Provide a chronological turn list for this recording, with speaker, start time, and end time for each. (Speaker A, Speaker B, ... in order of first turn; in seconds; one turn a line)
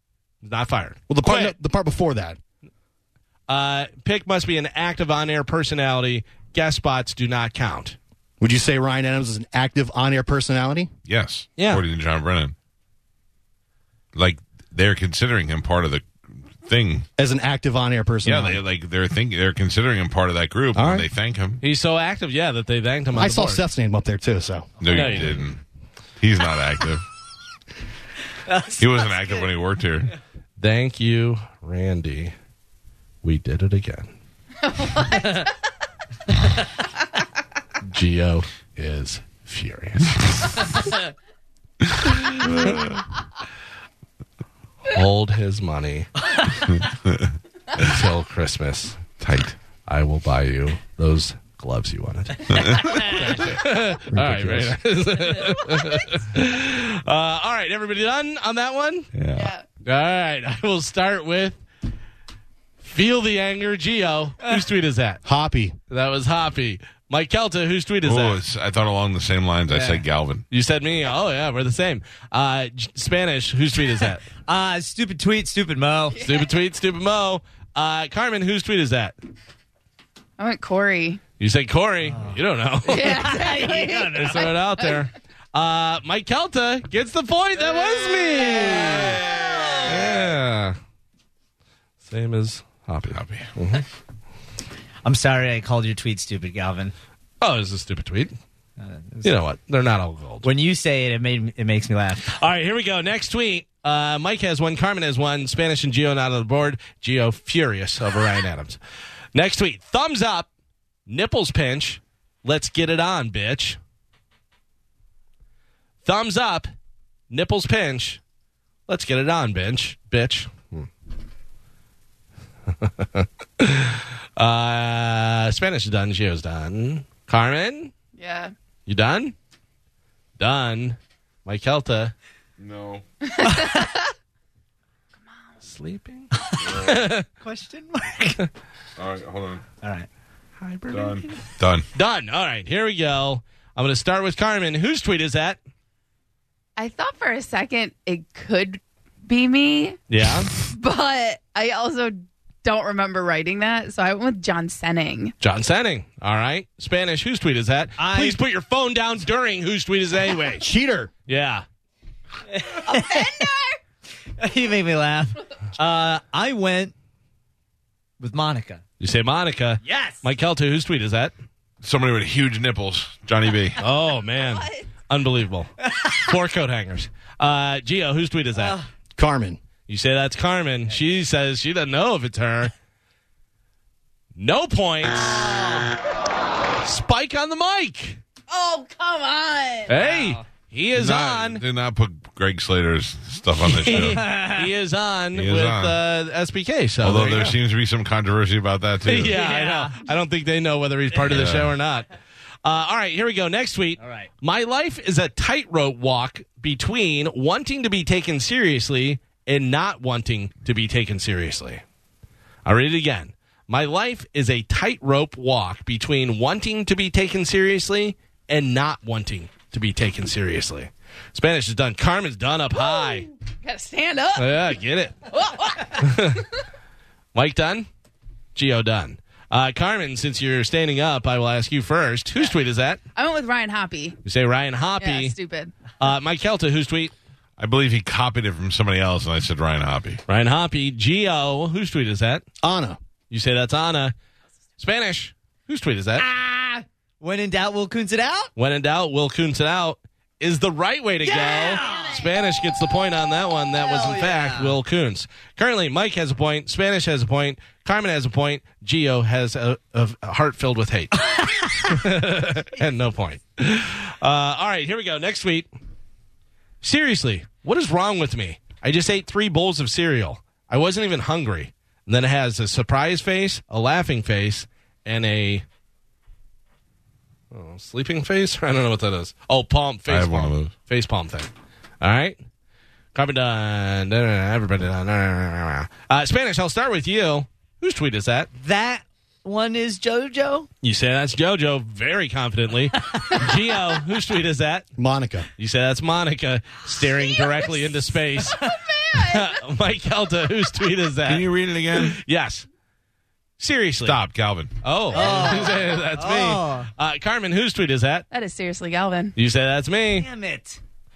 Speaker A: 0.4-1.5
Speaker B: 1.1-2.4
Speaker A: 3.5-8.0
Speaker B: 8.4-10.9
Speaker C: 11.1-12.5
Speaker A: 11.6-11.8
Speaker C: 14.1-17.1
Speaker B: 17.2-18.6
Speaker C: 18.2-21.6
Speaker B: 20.7-21.1
Speaker A: 21.6-23.6
Speaker B: 23.1-24.7
Speaker C: 24.8-25.6
Speaker A: 24.9-25.4
Speaker C: 26.2-27.0
Speaker D: 28.5-29.3
Speaker C: 28.8-30.1
Speaker A: 30.6-32.3
Speaker A: 33.2-34.1
Speaker E: 34.7-35.4
Speaker A: 37.9-40.7
Speaker C: 42.4-43.0
Speaker A: 44.9-46.1
Speaker C: 46.7-47.9
Speaker A: 47.8-49.0
Speaker C: 49.2-49.5
Speaker A: 49.9-59.1
Speaker C: 52.5-53.5
Speaker B: 54.1-54.8
Speaker C: 59.1-59.5
Speaker E: 59.3-59.6
Speaker A: 59.8-61.6
Speaker A: 62.8-65.2
Speaker B: 65.2-65.8
Speaker A: 65.9-68.4
Speaker C: 68.0-70.4
Speaker D: 69.7-70.0
Speaker A: 70.5-74.2
Speaker D: 74.5-76.2
Speaker E: 76.1-76.4
Speaker A: 76.2-79.1
Speaker E: 80.4-81.2
Speaker A: 81.4-83.3
Speaker D: 82.0-84.6
Speaker E: 82.9-85.0
Speaker A: 84.1-89.2
Speaker D: 87.7-90.2
Speaker A: 89.8-90.8
Speaker A: 92.0-93.8
Speaker C: 93.1-93.5
Speaker D: 95.0-96.9
Speaker A: 97.4-98.3
Speaker D: 98.8-99.3
Speaker A: 99.2-100.5
Speaker D: 100.4-102.3
Speaker A: 102.3-108.8
Speaker A: 109.3-110.5
Speaker A: 111.1-113.8
Speaker A: 116.0-116.7
Speaker A: 117.3-118.2
Speaker A: 118.9-120.9
Speaker A: 122.8-127.9
Speaker E: 128.1-128.5
Speaker A: 128.9-129.3
Speaker A: 130.4-132.1
Speaker C: 132.6-133.0
Speaker E: 133.3-133.9
Speaker D: 133.5-133.8
Speaker A: 135.6-137.2
Speaker D: 136.3-136.8
Speaker C: 136.6-137.0
Speaker D: 137.4-138.4
Speaker C: 139.0-139.6
Speaker D: 139.8-140.1
Speaker A: 140.6-141.3
Speaker C: 140.9-141.8
Speaker A: 141.9-145.6
Speaker E: 146.8-150.0
Speaker A: 150.1-150.5
Speaker E: 150.6-155.3
Speaker A: 155.4-160.6
Speaker D: 158.0-158.4
Speaker B: 160.6-161.1
Speaker A: 161.3-161.6
Speaker D: 162.5-163.5
Speaker E: 162.8-163.8
Speaker D: 164.4-166.9
Speaker D: 168.2-168.8
Speaker A: 169.0-171.3
Speaker D: 169.8-170.2
Speaker C: 171.8-173.8
Speaker A: 173.8-178.8
Speaker E: 174.4-174.8
Speaker D: 175.8-176.3
Speaker D: 178.5-178.9
Speaker B: 179.2-179.6
Speaker A: 179.9-182.7
Speaker A: 184.3-185.5
Speaker D: 185.3-185.9
Speaker A: 186.8-188.2
Speaker E: 188.5-189.9
Speaker A: 189.9-191.6
Speaker D: 189.9-190.4
Speaker C: 190.9-194.3
Speaker A: 193.7-197.6
Speaker D: 193.8-194.7
Speaker C: 195.3-196.0
Speaker C: 197.0-199.3
Speaker A: 199.0-202.1
Speaker D: 199.3-200.1
Speaker C: 201.2-201.7
Speaker A: 202.6-211.8
Speaker D: 204.0-204.3
Speaker A: 212.6-223.3
Speaker E: 223.6-224.7
Speaker A: 224.3-225.2
Speaker E: 225.3-226.4
Speaker A: 225.9-226.4
Speaker A: 227.3-227.9
Speaker A: 228.5-233.0
Speaker E: 233.1-234.2
Speaker A: 234.2-235.3
Speaker E: 235.0-235.7
Speaker A: 236.0-237.1
Speaker C: 237.6-240.2
Speaker A: 240.3-242.4
Speaker B: 242.6-243.0
Speaker A: 243.3-244.1
Speaker A: 244.8-246.3
Speaker D: 246.2-248.5
Speaker A: 248.6-265.7
Speaker D: 251.2-252.3
Speaker D: 253.8-254.8
Speaker D: 261.1-262.0
Speaker A: 266.8-275.6
Speaker A: 277.5-281.5
Speaker C: 280.1-280.7
Speaker A: 282.0-282.4
Speaker A: 283.1-288.5
Speaker D: 288.5-290.7
Speaker A: 290.8-294.9
Speaker B: 295.0-295.5
Speaker A: 295.6-298.6
Speaker E: 298.6-299.5
Speaker A: 299.1-302.6
Speaker C: 301.2-302.2
Speaker A: 303.6-304.2
Speaker C: 304.0-305.4
Speaker A: 304.8-308.2
Speaker D: 305.1-306.9
Speaker E: 308.3-309.3
Speaker A: 309.4-310.3
Speaker D: 310.1-310.8